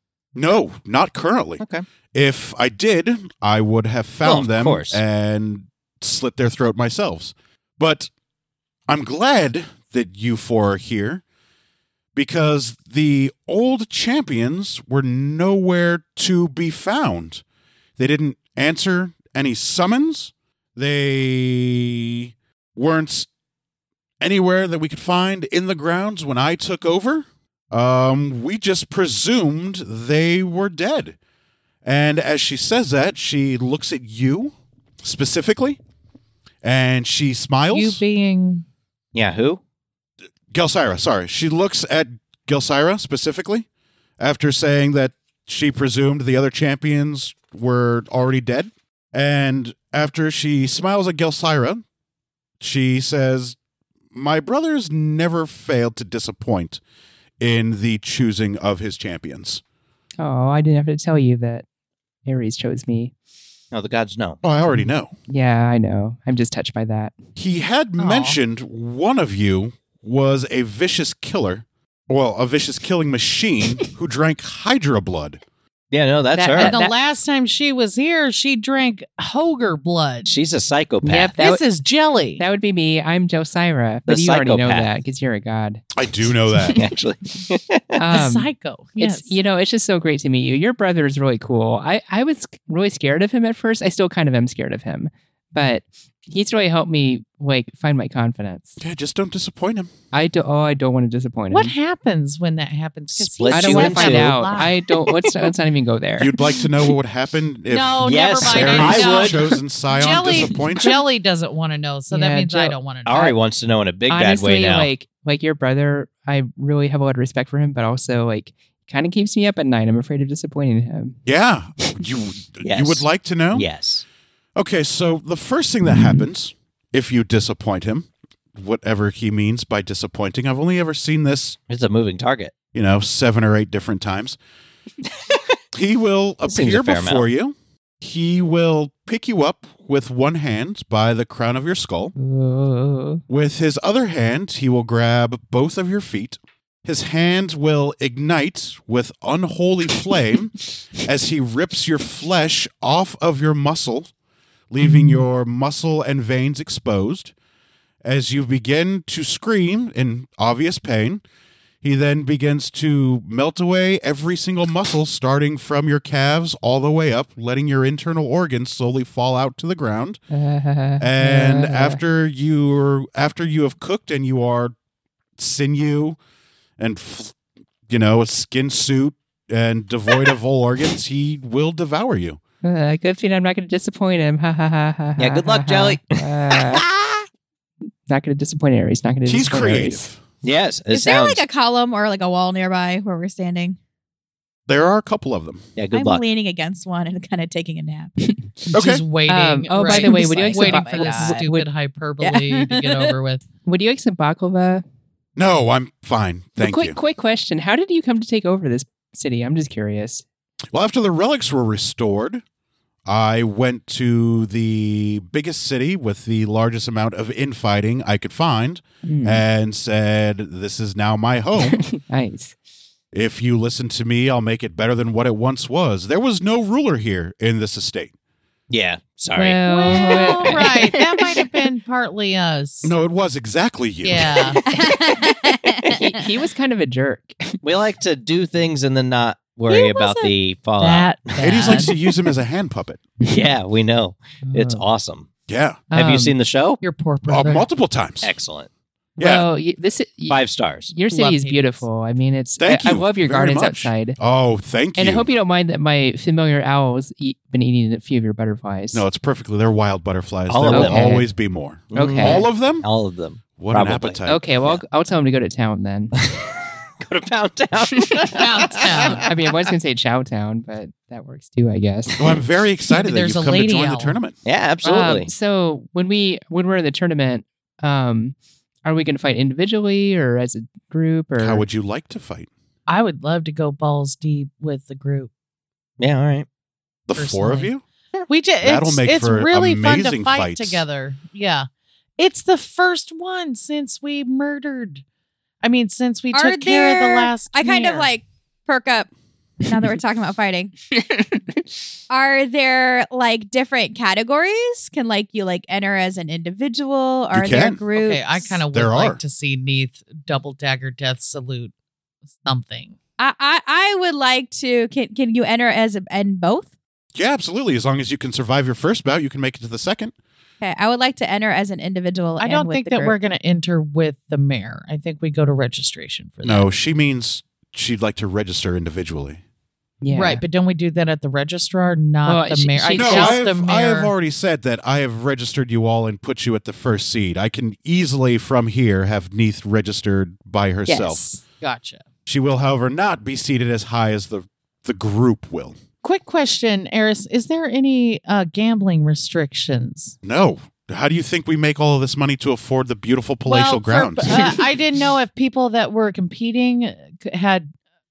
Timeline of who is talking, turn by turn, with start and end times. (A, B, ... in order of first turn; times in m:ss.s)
0:00.4-0:01.6 A
0:01.6-0:01.9 B
0:02.1-0:08.1 A
0:04.2-0:05.0 B
0:08.9-0:11.2 A
0:12.2-0:17.4 A
0:18.0-0:23.3 A
0:24.2-0:31.2 A
0:31.8-0:35.8 A
0:36.6-0:38.0 A
0:37.7-0:38.6 C
0:39.1-0:39.6 B
0:40.5-0:43.7 A
0:44.2-0:51.8 A
0:52.6-0:53.6 A
0:54.1-0:56.8 A
0:57.4-0:59.6 A
1:00.2-1:01.6 D
1:02.2-1:03.1 D
1:03.7-1:04.4 B
1:04.4-1:05.1 A
1:05.3-1:07.2 D
1:07.4-1:15.4 A
1:08.0-1:08.4 C
1:15.9-1:16.8 B
1:16.3-1:16.9 D
1:16.6-1:20.3 C
1:20.3-1:21.3 B
1:21.0-1:21.6 D
1:21.4-1:22.4 C
1:22.4-1:25.9 D
1:24.1-1:24.9 B
1:26.0-1:26.8 A
1:26.7-1:28.0 B
1:28.0-1:38.8 D
1:28.1-1:29.4 C
1:38.8-1:39.9 A
1:40.1-1:41.7 D
1:41.5-1:44.8 C
1:43.2-1:44.6 B
1:43.5-1:46.4 D
1:46.2-1:51.0 A
1:47.7-1:53.3 C
1:48.0-1:49.6 B
1:52.1-1:52.8 D
1:53.0-1:54.9 B
1:54.1-2:01.2 D
2:01.3-2:03.7 A
2:02.6-2:04.0 B
2:04.6-2:11.6 A
2:05.9-2:06.2 D
2:11.7-2:12.5 B
2:12.7-2:14.4 A
2:15.7-2:22.1 A
2:16.5-2:17.2 B
2:22.2-2:23.2 D
2:23.3-2:34.1 A
2:34.7-2:37.3 A
2:34.8-2:35.2 D
2:38.0-2:41.2 A
2:41.8-2:50.2 A
2:50.3-2:52.0 D
2:51.0-2:54.8 A
2:55.4-2:56.2 A
2:56.8-2:57.4 A
2:57.9-3:02.4 A
3:02.6-3:06.9 D
3:05.2-3:06.8 B
3:08.1-3:10.0 D
3:09.2-3:10.2 A
3:10.4-3:11.4 B
3:10.9-3:13.8 E
3:14.7-3:15.6 A
3:15.8-3:16.2 B
3:15.9-3:18.1 E
3:18.2-3:18.7 D
3:18.7-3:23.4 C
3:18.7-3:19.0 A
3:19.3-3:21.7 D
3:19.8-3:21.5 E
3:22.2-3:23.1 E
3:23.6-3:24.8 D
3:25.4-3:27.0 A
3:26.6-3:30.2 D
3:30.7-3:32.4 A
3:33.1-3:41.8 A
3:39.0-3:39.4 D
3:41.6-3:42.6 D
3:43.1-3:48.1 A
3:48.7-3:49.9 B
3:49.4-3:51.5 D
3:49.7-3:52.9 C
3:52.8-3:54.6 A
3:54.0-3:54.6 C
3:54.7-3:56.0 E
3:56.0-3:57.6 D
3:57.6-4:02.1 B
3:59.7-4:01.9 C
4:01.4-4:03.1 A
4:03.2-4:05.3 B
4:04.5-4:04.8 D
4:05.5-4:05.9 A
4:05.9-4:06.4 D
4:05.9-4:06.8 B
4:06.8-4:07.7 C
4:07.3-4:08.3 A
4:08.2-4:08.7 B
4:09.2-4:09.5 A
4:09.2-4:14.2 D
4:10.3-4:10.9 B
4:11.1-4:11.8 C
4:12.6-4:15.3 A
4:15.0-4:19.0 D
4:18.9-4:22.9 A
4:20.5-4:21.2 B
4:20.7-4:21.3 D
4:21.9-4:24.8 B
4:21.9-4:22.5 D
4:23.6-4:24.4 A
4:24.3-4:26.1 D
4:26.2-4:29.7 B
4:28.3-4:29.2 C
4:29.2-4:32.4 D
4:32.2-4:34.4 A
4:32.9-4:34.2 C
4:34.4-4:35.3 B
4:34.8-4:41.6 D
4:41.4-4:42.5 A
4:42.9-4:45.3 C
4:46.0-4:46.5 B
4:47.1-4:47.8 A
4:47.2-4:47.7 C
4:48.3-4:51.7 C
4:48.6-4:50.8 A
4:52.2-4:55.0 C
4:55.6-4:58.1 C
4:56.3-4:59.1 E
4:59.6-5:00.7 E
5:00.9-5:01.6 D
5:02.1-5:08.6 E
5:07.3-5:07.8 A
5:08.0-5:11.7 C
5:08.7-5:09.2 A
5:12.4-5:13.0 C
5:13.2-5:16.7 E
5:17.2-5:20.1 A
5:20.6-5:23.2 E
5:22.4-5:26.7 C
5:26.4-5:29.4 A
5:30.0-5:30.4 D
5:30.1-5:34.1 C
5:32.2-5:33.4 D
5:32.9-5:41.3 A
5:40.9-5:41.2 D
5:41.5-5:42.0 C
5:42.3-5:45.8 A
5:46.0-5:50.2 C
5:50.2-5:54.5 A
5:53.5-5:57.7 C